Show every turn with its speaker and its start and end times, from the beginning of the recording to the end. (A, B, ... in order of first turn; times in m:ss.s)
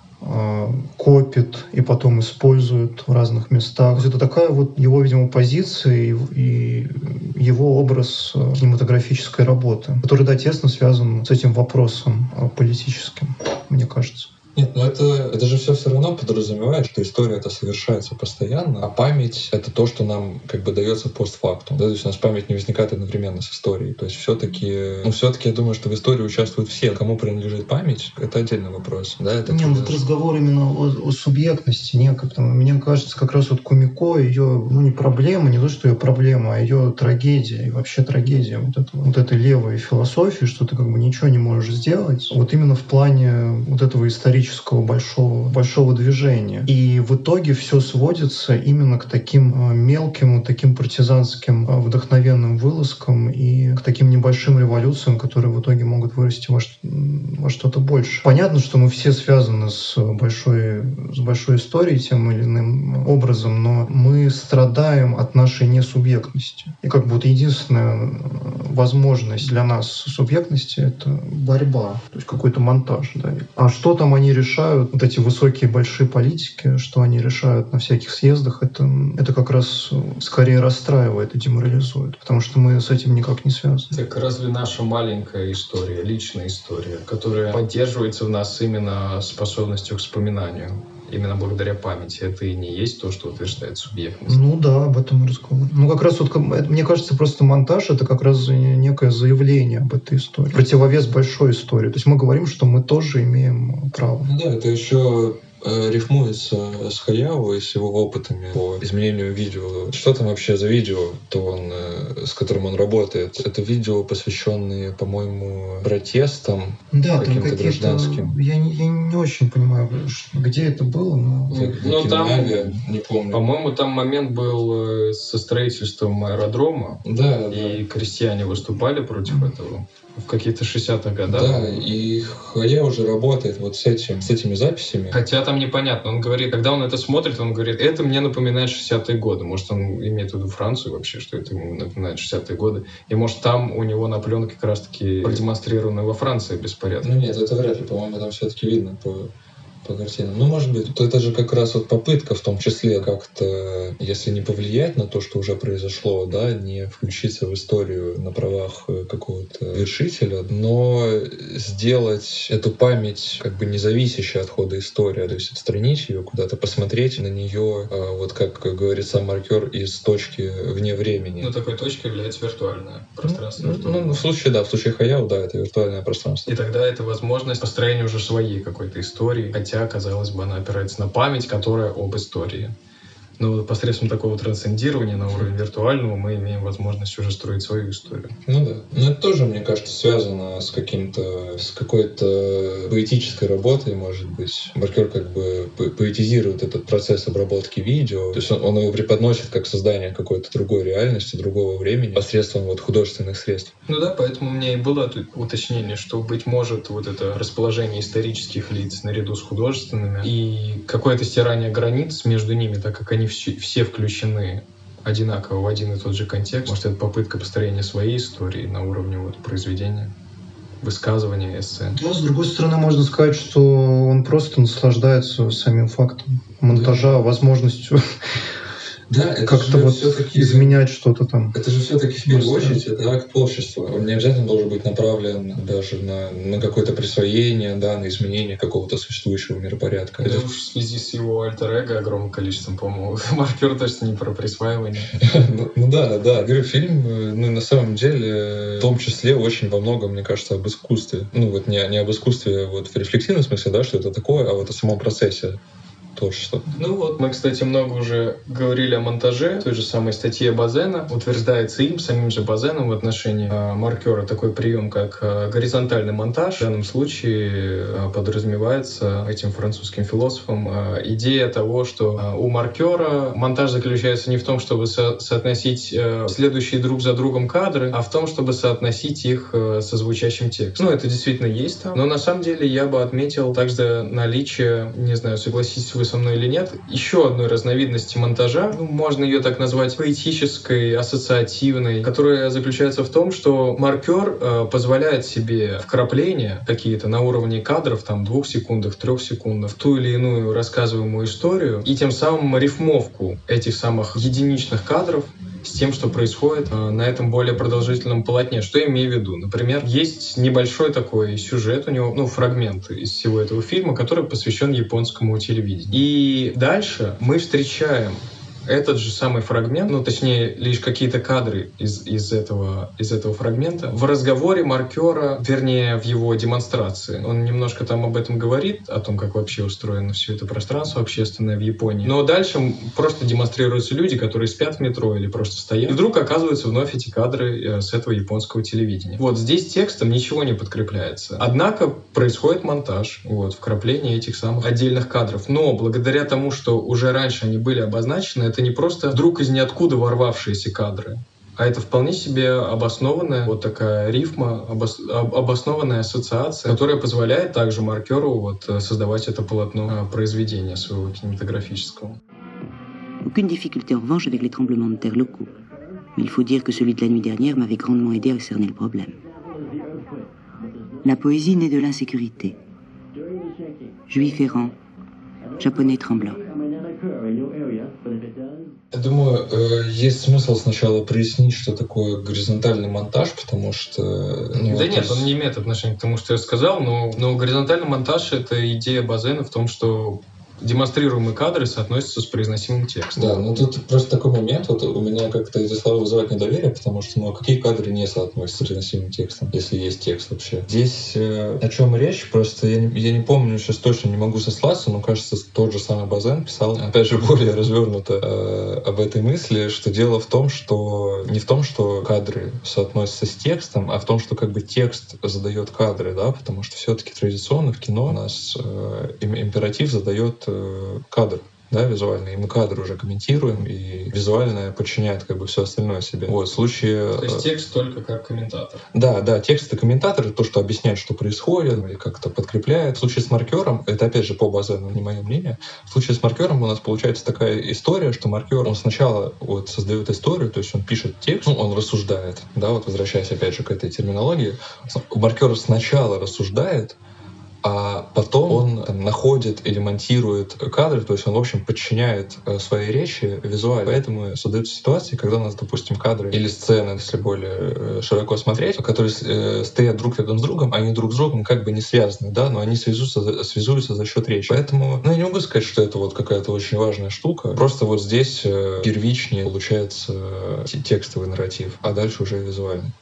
0:00.2-0:14.3 A
0:14.5-0:30.0 B
0:29.4-1:23.9 A
1:23.9-1:34.4 C
1:34.3-1:44.3 A
1:44.2-1:58.4 B
1:56.9-2:01.7 A
2:01.5-2:03.4 B
2:01.5-2:02.6 C
2:03.3-2:11.7 C
2:07.0-2:07.8 B
2:11.2-2:15.2 B
2:15.1-2:27.1 C
2:27.0-2:29.3 B
2:29.8-2:51.5 B
2:51.4-2:54.2 C
2:53.2-2:56.5 B
2:56.4-3:02.7 C
3:03.4-3:08.3 C
3:08.4-3:23.7 B
3:23.9-3:40.1 C
3:40.8-3:42.0 C
3:41.9-3:48.1 A
3:49.1-3:50.8 B
3:49.4-3:51.5 A
3:51.5-4:00.4 B
3:52.2-3:52.8 A
4:00.2-4:05.4 C
4:05.1-4:15.6 B
4:16.2-4:16.7 B
4:16.7-6:02.2 C
6:03.2-6:05.5 D
6:06.2-6:09.2 D
6:11.0-6:12.6 D
6:14.1-6:14.7 D
6:15.6-6:16.5 D
6:18.9-6:25.3 B
6:24.5-6:33.5 C
6:33.2-7:07.4 B
7:07.2-7:08.9 C
7:08.9-7:27.0 B
7:27.6-7:52.9 B